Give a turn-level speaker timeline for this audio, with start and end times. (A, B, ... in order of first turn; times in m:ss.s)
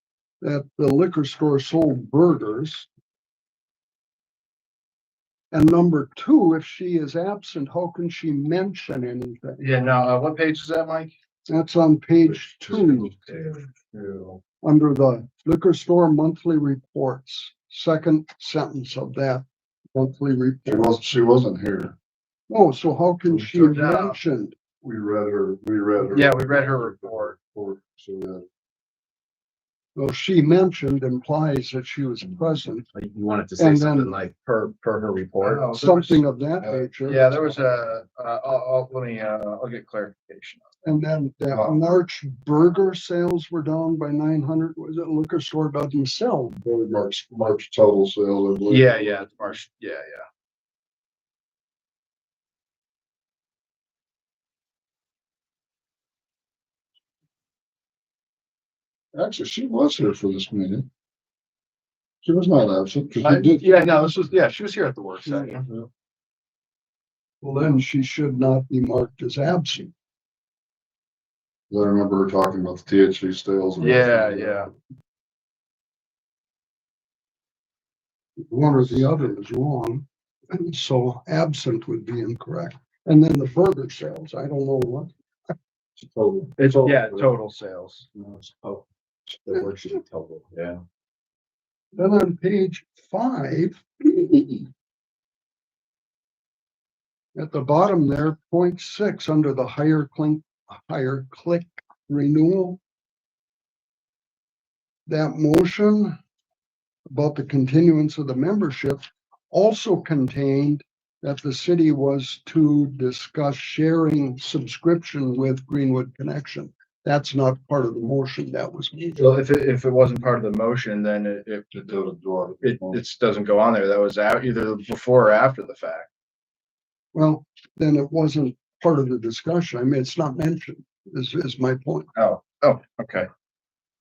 0:00.4-0:02.9 A
0:05.5-0:09.6 A
0:09.6-0:11.1 B
0:11.5-0:13.1 A
0:12.3-0:14.4 C
0:14.6-0:21.0 A
0:20.6-0:21.9 C
0:22.5-0:24.6 A
0:23.4-0:24.2 B
0:24.8-0:28.4 C
0:26.1-0:27.4 B
0:30.0-0:32.8 A
0:32.9-0:35.6 D
0:33.6-0:34.1 A
0:35.4-0:36.2 B
0:35.7-0:37.3 A
0:36.9-0:40.7 B
0:40.8-0:46.6 A
0:46.6-0:48.9 C
0:48.7-0:50.2 B
0:59.1-1:00.9 C
1:02.2-1:03.6 C
1:03.2-1:05.6 B
1:07.4-1:09.9 A
1:11.7-1:14.6 C
1:13.8-1:14.7 B
1:18.4-1:25.1 A
1:26.0-1:27.3 C
1:26.6-1:28.1 B
1:32.0-1:34.6 A
1:37.3-1:42.8 A
1:45.1-1:46.2 A
1:47.1-1:59.2 A
1:59.2-2:01.7 B
2:01.7-2:03.0 C
2:02.6-2:06.1 B
2:07.1-2:12.1 A
2:12.1-2:13.3 B